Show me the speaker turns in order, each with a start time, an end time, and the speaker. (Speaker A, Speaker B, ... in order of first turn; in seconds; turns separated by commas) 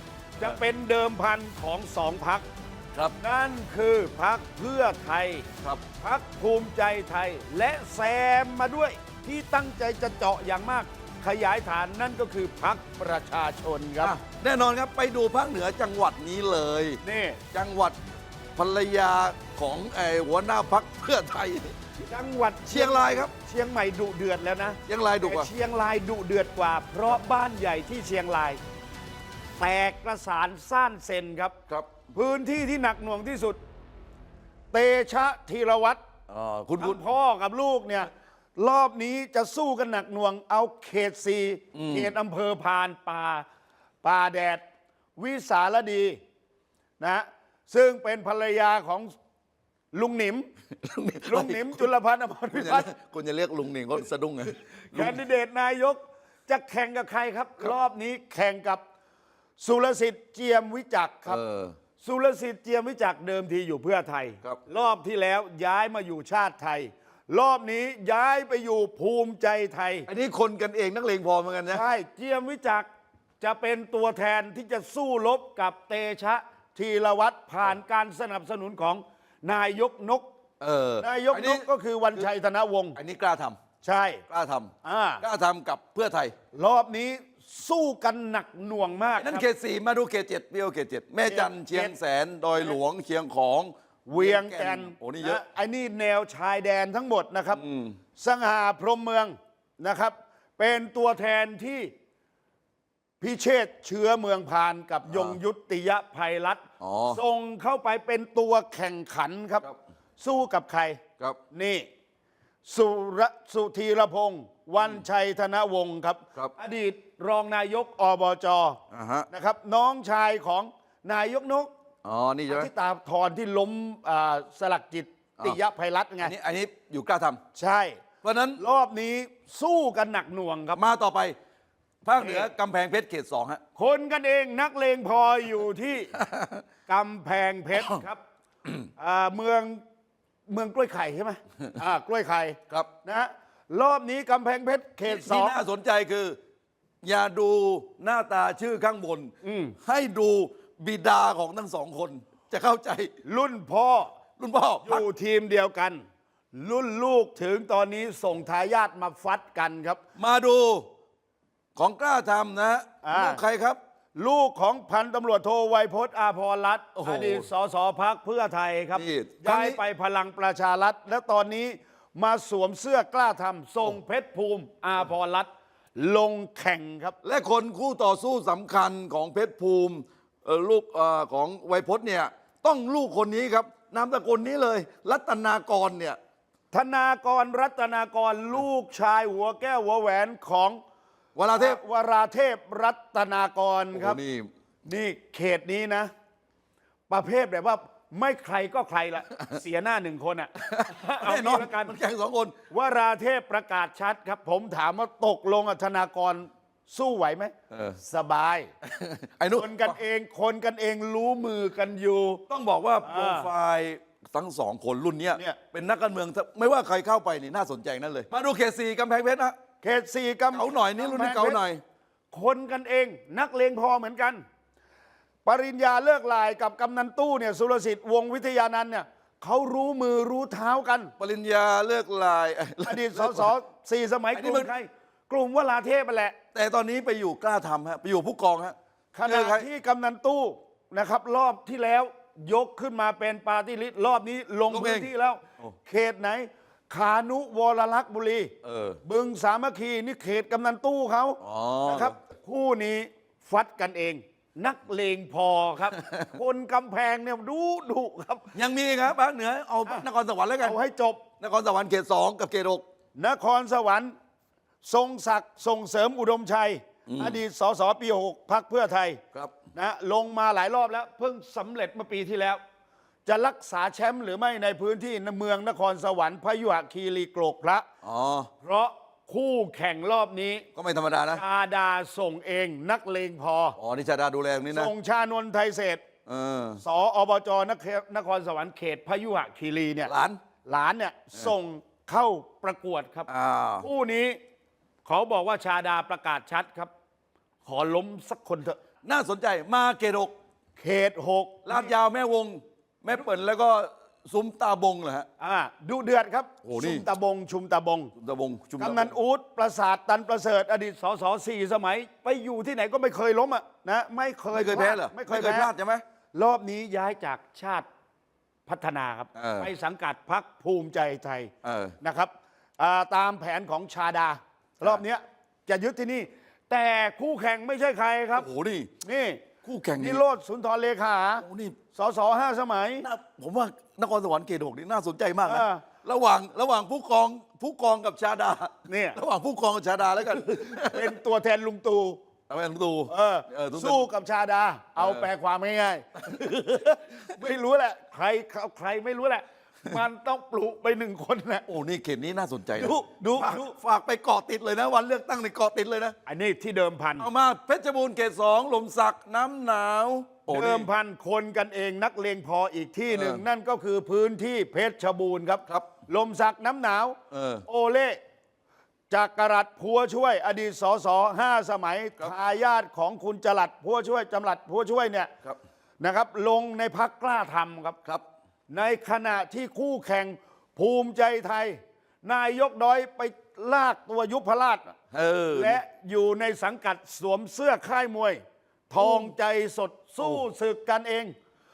Speaker A: 0.4-2.5, Speaker A: 3.2-5.5, Speaker A: 6.0-14.1, Speaker B: 14.0-17.0, Speaker A: 17.0-17.4, Speaker B: 17.5-18.0, Speaker B: 18.6-21.7, Speaker A: 22.0-28.6, Speaker B: 22.7-23.3, Speaker B: 24.9-25.5, Speaker A: 29.6-31.5, Speaker B: 31.7-32.0, Speaker A: 32.1-33.6, Speaker A: 34.7-36.0, Speaker B: 36.3-37.0, Speaker A: 36.8-43.4, Speaker B: 41.7-42.1, Speaker A: 44.0-44.6, Speaker A: 45.2-46.2, Speaker A: 47.0-49.1, Speaker A: 49.9-50.5, Speaker B: 50.8-51.9, Speaker A: 51.3-52.9, Speaker B: 52.5-55.2, Speaker A: 54.9-58.8, Speaker A: 59.6-61.4, Speaker B: 61.3-61.7, Speaker A: 62.0-70.1, Speaker B: 70.1-71.8, Speaker A: 71.7-72.9, Speaker A: 73.4-80.3, Speaker B: 80.6-82.3, Speaker A: 81.0-83.0, Speaker B: 83.0-83.6, Speaker A: 83.8-84.2, Speaker B: 84.3-86.3, Speaker A: 84.8-85.2, Speaker A: 86.5-89.4, Speaker B: 89.2-95.4, Speaker A: 91.2-91.9, Speaker A: 94.1-97.6, Speaker B: 97.5-98.0, Speaker A: 98.2-101.9, Speaker A: 103.2-109.6, Speaker B: 105.1-105.4, Speaker B: 106.8-107.2, Speaker A: 110.2-111.0, Speaker A: 111.5-111.9, Speaker A: 112.6-118.8, Speaker B: 114.8-115.0, Speaker B: 118.9-119.3, Speaker A: 119.3-121.7, Speaker B: 122.0-122.7, Speaker A: 122.5-126.3, Speaker B: 126.2-127.4, Speaker A: 127.5-128.0, Speaker B: 128.2-128.6, Speaker A: 128.6-130.8, Speaker B: 130.7-131.4, Speaker B: 132.0-133.6, Speaker A: 132.2-132.5, Speaker A: 133.8-136.1, Speaker B: 136.1-136.6, Speaker A: 136.9-138.2, Speaker B: 137.7-138.0, Speaker A: 139.0-139.8, Speaker A: 140.5-145.6, Speaker B: 145.0-146.4, Speaker B: 147.0-149.3, Speaker A: 149.4-149.8, Speaker B: 149.8-153.1, Speaker A: 153.2-154.1, Speaker B: 154.4-155.0, Speaker A: 154.8-160.0, Speaker B: 160.2-160.9, Speaker B: 161.7-163.8, Speaker A: 163.0-163.4, Speaker A: 164.2-177.2, Speaker B: 167.0-167.5, Speaker B: 168.9-169.8, Speaker B: 177.2-186.2, Speaker A: 186.7-190.8, Speaker B: 191.3-191.8, Speaker A: 191.5-194.2, Speaker B: 193.9-194.5, Speaker A: 194.8-196.1, Speaker A: 197.1-201.9, Speaker B: 200.6-202.5, Speaker A: 202.7-208.7, Speaker B: 207.7-208.0, Speaker B: 208.8-210.0, Speaker A: 209.5-212.4, Speaker B: 212.5-219.5, Speaker A: 213.0-213.5, Speaker A: 219.8-221.6, Speaker B: 220.5-221.8, Speaker A: 222.3-224.4, Speaker A: 225.4-231.1, Speaker B: 231.2-233.5, Speaker A: 232.8-236.3, Speaker B: 234.3-234.7, Speaker B: 236.5-239.7, Speaker A: 239.1-248.5, Speaker B: 244.7-245.1, Speaker B: 248.6-249.0, Speaker A: 249.0-258.5, Speaker B: 251.4-252.1, Speaker B: 255.9-256.3, Speaker B: 258.5-260.8, Speaker A: 260.6-261.2, Speaker B: 261.4-262.8, Speaker A: 263.1-264.1, Speaker A: 264.8-269.2, Speaker B: 267.1-267.4, Speaker A: 269.7-272.6, Speaker A: 273.2-277.9, Speaker B: 278.0-278.5, Speaker A: 278.6-280.6, Speaker B: 280.7-281.4, Speaker A: 281.3-283.8, Speaker B: 283.8-284.9, Speaker A: 284.7-286.0, Speaker B: 286.2-286.8, Speaker A: 286.8-290.1, Speaker B: 290.1-290.4, Speaker A: 290.6-293.3, Speaker B: 293.3-293.9, Speaker A: 293.8-294.4, Speaker A: 295.0-296.9, Speaker A: 297.6-298.8, Speaker B: 299.0-300.3, Speaker A: 300.8-301.9, Speaker B: 301.6-305.3, Speaker A: 305.4-308.1, Speaker B: 306.6-307.1, Speaker B: 308.1-309.1, Speaker A: 308.8-315.7, Speaker B: 314.5-316.0, Speaker A: 316.3-317.9, Speaker A: 318.7-328.5, Speaker B: 319.3-319.7, Speaker B: 321.6-321.9, Speaker B: 328.3-328.9, Speaker A: 329.0-329.4, Speaker B: 329.6-330.2, Speaker A: 330.0-333.1, Speaker B: 331.4-331.8, Speaker B: 333.0-341.1, Speaker A: 335.4-335.8, Speaker A: 338.9-339.2, Speaker A: 340.6-342.2, Speaker B: 342.5-344.1, Speaker A: 343.1-351.6, Speaker B: 345.0-345.3, Speaker B: 346.2-346.5, Speaker B: 351.7-356.1, Speaker A: 352.8-353.7, Speaker A: 356.2-357.3, Speaker B: 357.2-360.9, Speaker A: 360.5-368.2, Speaker B: 363.1-363.4, Speaker B: 367.3-367.6, Speaker A: 369.1-375.3, Speaker A: 376.0-378.0, Speaker A: 378.7-384.9, Speaker B: 385.1-385.8, Speaker A: 385.5-391.3, Speaker B: 389.0-389.3